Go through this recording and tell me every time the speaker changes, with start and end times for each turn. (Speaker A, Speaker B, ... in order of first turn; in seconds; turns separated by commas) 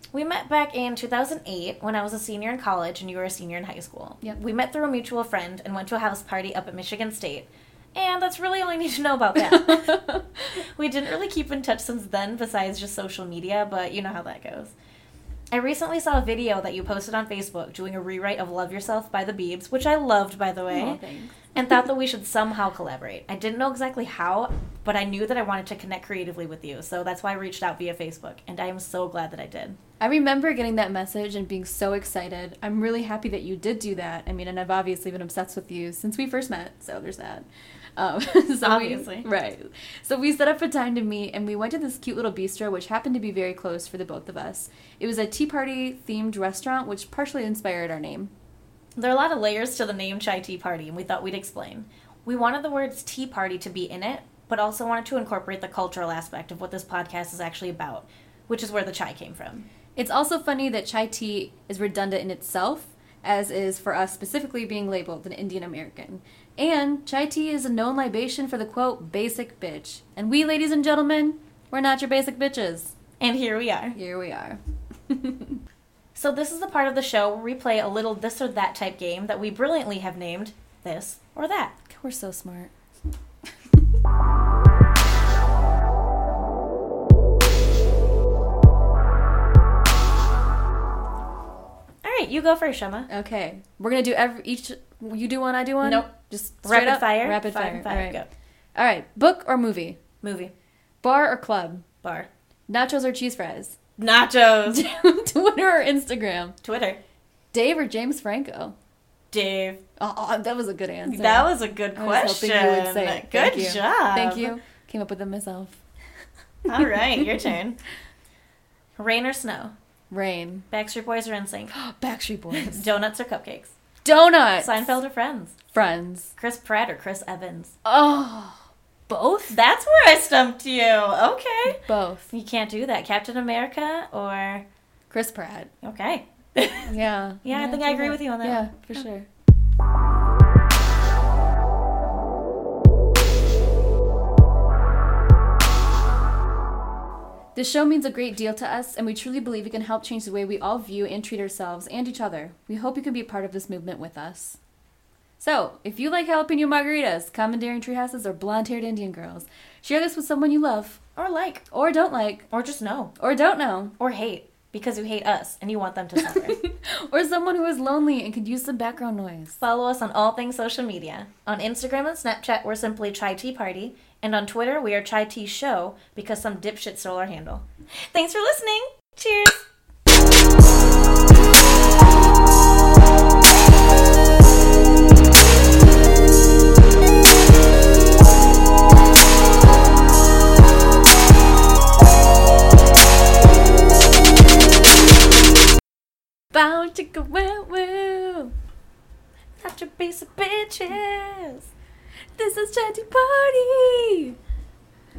Speaker A: 0.1-10.0, Speaker B: 9.4-10.2, Speaker A: 10.8-14.7, Speaker A: 15.5-21.0, Speaker B: 20.7-21.3, Speaker A: 21.6-29.8, Speaker B: 30.0-48.3, Speaker A: 38.6-39.3, Speaker A: 49.0-59.7, Speaker B: 60.0-72.9, Speaker A: 73.2-74.0, Speaker B: 73.9-75.6, Speaker A: 76.2-81.7, Speaker B: 81.9-82.7, Speaker A: 92.0-93.1, Speaker B: 93.1-98.2, Speaker A: 95.8-96.1, Speaker A: 96.6-98.3, Speaker B: 98.8-100.0, Speaker A: 100.2-100.5, Speaker B: 101.0-101.8, Speaker A: 102.0-102.3, Speaker B: 102.7-103.8, Speaker A: 104.0-104.9, Speaker B: 104.7-106.6, Speaker A: 106.6-107.0, Speaker B: 107.5-108.8, Speaker A: 109.3-109.8, Speaker B: 110.0-115.8, Speaker A: 111.0-114.5, Speaker A: 116.7-117.8, Speaker A: 119.0-119.7, Speaker B: 120.1-120.7, Speaker A: 120.7-121.7, Speaker B: 121.7-122.8, Speaker A: 122.5-123.7, Speaker B: 124.0-125.0, Speaker A: 124.6-125.5, Speaker B: 125.7-126.3, Speaker A: 126.4-127.8, Speaker B: 127.8-129.6, Speaker A: 129.5-131.8, Speaker B: 131.7-132.3, Speaker A: 132.3-134.7, Speaker B: 135.1-135.7, Speaker A: 135.8-136.9, Speaker B: 136.8-139.3, Speaker A: 137.4-139.1, Speaker B: 147.6-154.6, Speaker B: 155.4-161.0, Speaker A: 161.2-161.6, Speaker B: 161.7-162.4, Speaker A: 162.5-163.1, Speaker B: 163.2-163.9, Speaker A: 164.0-166.6, Speaker B: 166.2-169.6, Speaker A: 169.6-179.6, Speaker B: 196.5-198.5, Speaker A: 199.6-201.7, Speaker B: 202.4-204.4